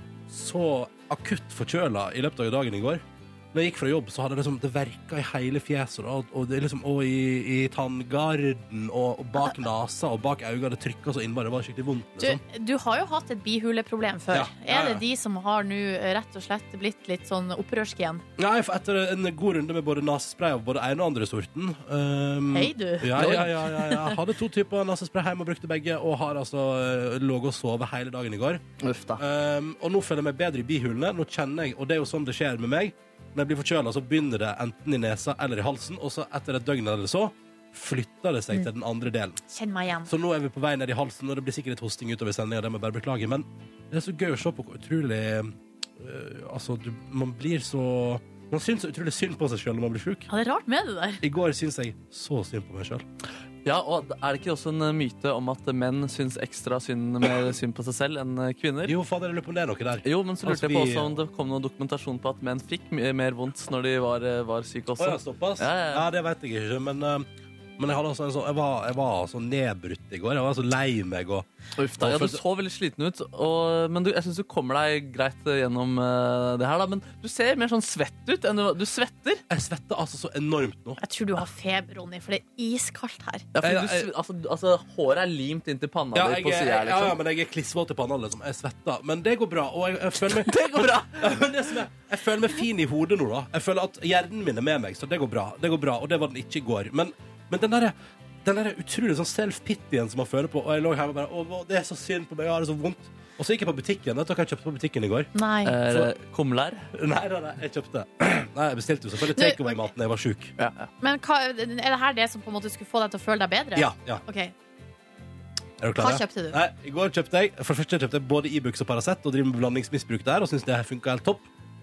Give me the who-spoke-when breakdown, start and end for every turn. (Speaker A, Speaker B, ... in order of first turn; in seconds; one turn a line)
Speaker A: 0.3-12.4
Speaker B: 12.2-18.2
Speaker A: 14.3-15.0
Speaker A: 18.4-28.6
Speaker B: 22.5-23.4
Speaker C: 23.1-24.1
Speaker C: 28.8-29.2
Speaker A: 29.2-39.4
Speaker B: 39.5-40.1
Speaker A: 40.1-50.3
Speaker B: 50.3-51.2
Speaker A: 51.2-53.0
Speaker C: 53.6-58.9
Speaker A: 58.9-61.1
Speaker C: 60.0-66.1
Speaker A: 65.0-67.3
Speaker A: 67.8-71.5
Speaker C: 71.8-79.4
Speaker A: 72.0-72.4
Speaker A: 79.5-81.0
Speaker B: 81.0-83.5
Speaker C: 83.5-87.2
Speaker A: 83.6-84.1
Speaker A: 86.1-105.3
Speaker C: 90.3-91.5
Speaker B: 105.3-105.7
Speaker C: 105.6-106.8
Speaker A: 105.8-106.1
Speaker A: 106.9-110.5
Speaker B: 109.3-109.9
Speaker C: 110.6-110.9
Speaker B: 111.0-114.5
Speaker A: 113.7-114.2
Speaker A: 115.8-121.5
Speaker B: 116.0-116.6